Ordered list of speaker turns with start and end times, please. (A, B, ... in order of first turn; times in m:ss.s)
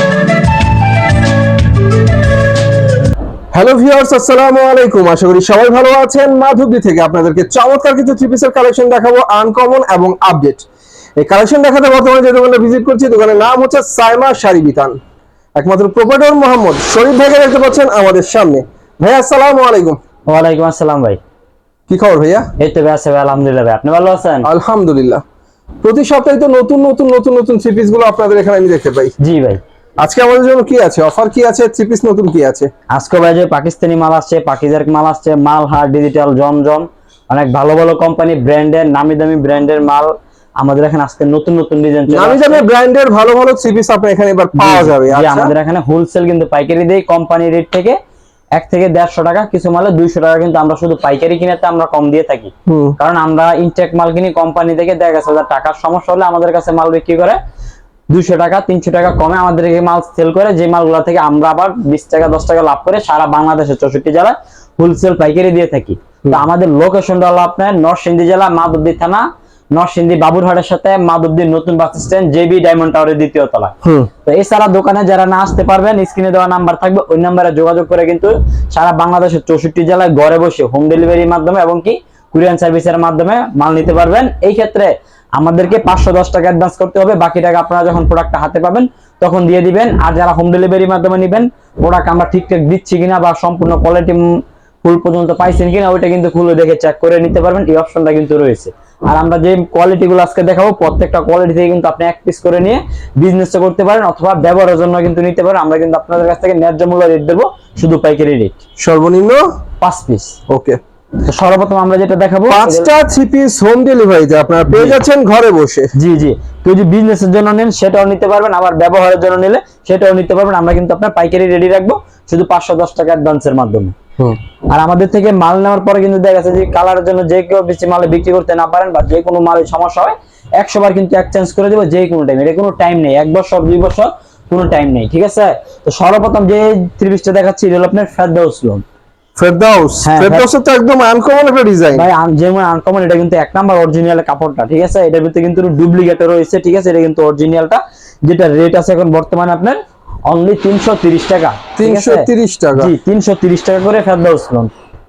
0:03.5-0:10.7 A
0:11.2-0:15.0 A
0:15.5-0:20.0 A
0:20.3-0:21.2 B
0:21.9-0:22.5 A
0:22.6-0:24.5 B
0:24.4-0:25.2 A
0:25.8-0:29.1 A
0:29.2-0:29.6 B
0:30.0-0:32.7 A
0:32.9-0:42.6 B
0:42.1-0:45.5 A
0:44.6-0:48.0 B
0:48.6-0:57.4 B
0:52.7-0:53.0 A
0:58.1-1:13.7 B
1:13.8-1:14.1 A
1:14.2-1:48.6 B
1:48.8-1:49.4 A
1:49.8-1:50.4 B
1:50.5-1:50.8 A
1:51.2-1:52.9 B
1:52.5-1:55.9 A
1:54.7-1:55.0 B
1:55.9-2:04.0 B
2:04.7-2:18.8 B
2:19.4-2:22.1 A
2:20.0-2:20.5 B
2:21.9-2:34.7 B
2:31.8-2:32.9 A